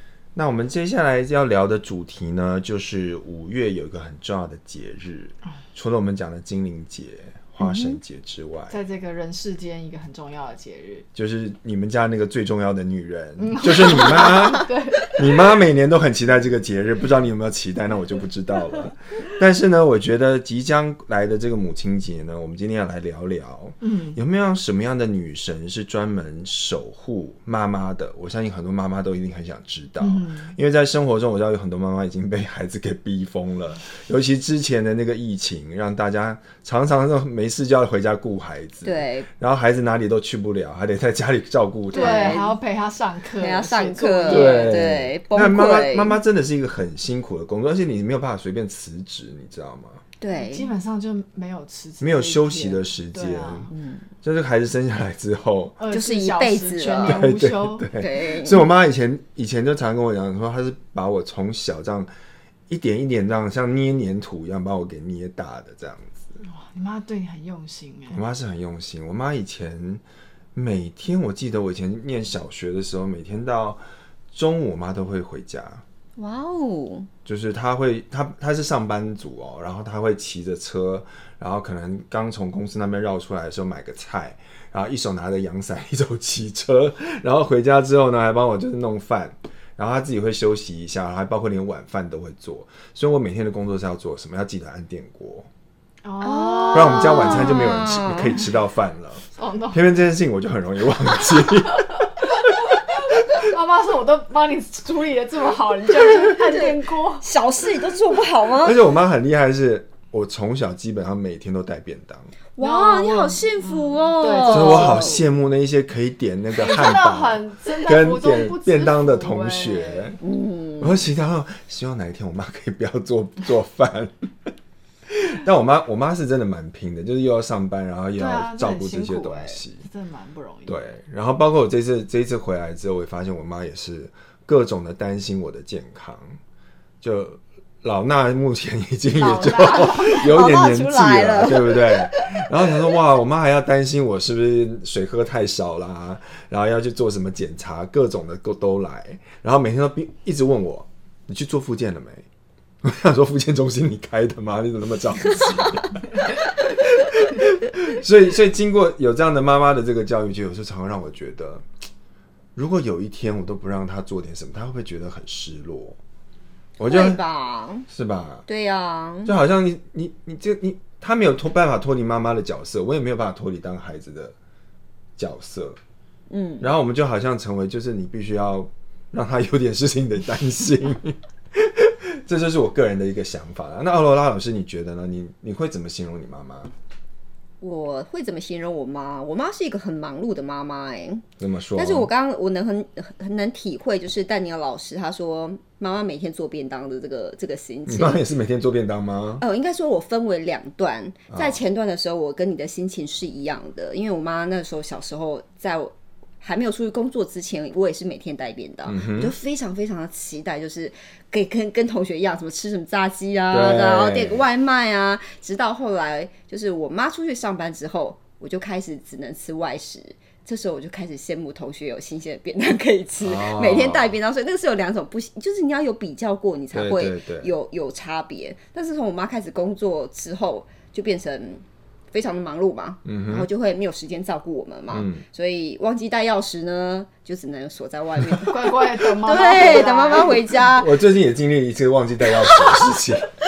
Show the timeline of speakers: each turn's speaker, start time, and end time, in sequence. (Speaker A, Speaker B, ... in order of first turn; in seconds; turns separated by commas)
Speaker A: 0.3-8.7, Speaker B: 7.6-8.0, Speaker C: 8.7-11.1, Speaker A: 11.1-42.4, Speaker C: 13.4-15.4, Speaker C: 23.8-24.2, Speaker C: 30.0-30.5, Speaker B: 38.8-39.3, Speaker C: 41.9-44.8, Speaker B: 41.9-42.6, Speaker B: 43.4-46.2, Speaker A: 44.3-50.0, Speaker B: 50.2-50.7, Speaker C: 50.3-53.7, Speaker A: 52.0-53.7, Speaker B: 53.7-54.1, Speaker A: 54.2-55.8, Speaker C: 55.8-57.9, Speaker B: 55.9-57.3, Speaker A: 57.0-62.1, Speaker B: 57.9-58.7, Speaker A: 62.7-66.4, Speaker C: 66.4-68.2, Speaker A: 68.1-70.0, Speaker A: 70.5-75.8, Speaker B: 76.2-77.1, Speaker A: 77.2-95.5, Speaker C: 96.0-97.6, Speaker B: 96.2-98.4, Speaker A: 96.7-102.6, Speaker C: 99.3-99.8, Speaker C: 103.1-107.3, Speaker B: 106.1-108.8, Speaker A: 108.6-112.3, Speaker B: 112.5-115.2, Speaker C: 112.6-115.2, Speaker A: 114.5-120.2, Speaker C: 116.5-120.2, Speaker B: 120.2-121.0, Speaker A: 120.8-124.5, Speaker A: 125.1-129.8, Speaker C: 128.2-130.8, Speaker A: 130.7-136.4, Speaker A: 137.0-152.2, Speaker C: 139.2-140.2, Speaker B: 139.3-142.5, Speaker A: 152.8-161.6, Speaker A: 162.6-166.0, Speaker A: 166.8-167.2, Speaker B: 166.9-167.9, Speaker A: 167.9-168.4, Speaker B: 168.5-169.3, Speaker A: 169.2-174.3, Speaker A: 175.2-175.8, Speaker B: 176.3-176.7, Speaker A: 176.6-186.7, Speaker B: 187.6-198.2, Speaker A: 191.4-192.1, Speaker A: 197.9-199.4, Speaker B: 199.4-241.0, Speaker A: 201.3-201.6, Speaker A: 208.8-209.3, Speaker A: 213.5-214.4, Speaker A: 223.2-224.2, Speaker A: 226.7-227.5, Speaker A: 233.1-233.5, Speaker A: 234.9-235.2, Speaker C: 238.4-240.4, Speaker A: 240.7-243.3, Speaker B: 242.4-242.9